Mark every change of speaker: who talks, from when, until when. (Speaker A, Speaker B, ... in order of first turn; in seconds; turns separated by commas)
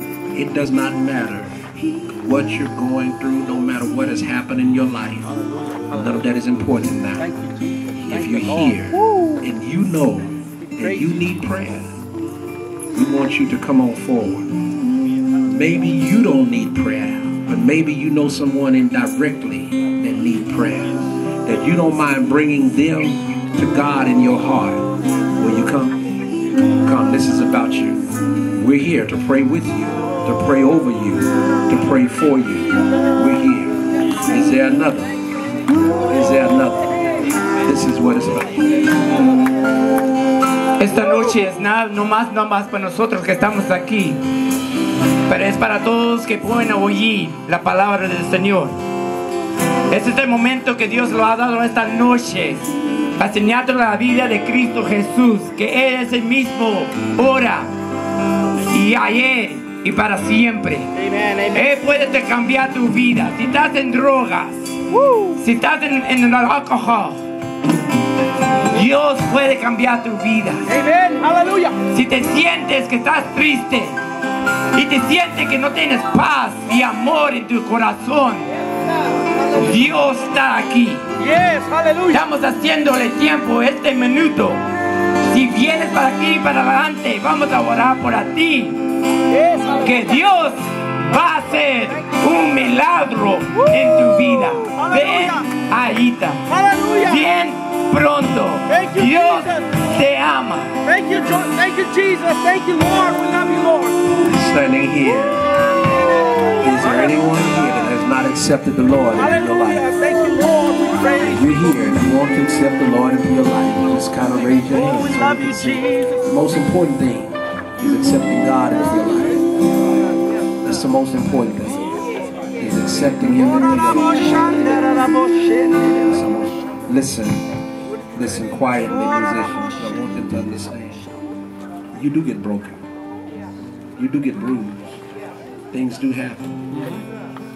Speaker A: 0.3-5.3, Speaker B: 5.2-6.3, Speaker A: 5.9-7.3, Speaker B: 7.2-9.3, Speaker A: 7.9-11.9, Speaker B: 10.6-11.4, Speaker A: 12.9-14.5, Speaker A: 15.4-24.9, Speaker A: 25.4-26.0, Speaker A: 26.8-35.2, Speaker A: 36.0-37.0, Speaker A: 37.6-38.9, Speaker C: 40.8-44.2, Speaker C: 45.3-48.8, Speaker C: 49.9-57.7, Speaker C: 58.7-60.9, Speaker B: 61.0-61.7, Speaker C: 61.5-64.8, Speaker B: 64.9-65.4, Speaker C: 65.4-67.2, Speaker C: 68.7-70.7, Speaker B: 70.7-71.8, Speaker C: 71.9-74.0, Speaker C: 74.8-78.5, Speaker C: 79.6-81.0, Speaker B: 81.2-82.2, Speaker C: 82.1-84.6, Speaker C: 85.3-88.8, Speaker B: 89.3-90.3, Speaker C: 89.8-96.5, Speaker B: 91.7-92.6, Speaker B: 93.5-95.5, Speaker B: 96.5-97.3, Speaker C: 97.0-100.8, Speaker B: 98.7-99.8, Speaker B: 100.8-104.0, Speaker A: 104.2-105.6, Speaker B: 105.8-107.3, Speaker A: 106.6-109.9, Speaker B: 109.2-111.8, Speaker A: 111.3-119.5, Speaker B: 114.7-116.3, Speaker A: 120.6-122.0, Speaker A: 122.6-124.4, Speaker B: 123.5-126.1, Speaker A: 126.1-127.4, Speaker A: 128.1-131.1, Speaker B: 128.8-130.1, Speaker A: 131.9-132.9, Speaker A: 134.0-135.0, Speaker A: 135.7-136.7, Speaker B: 136.7-137.0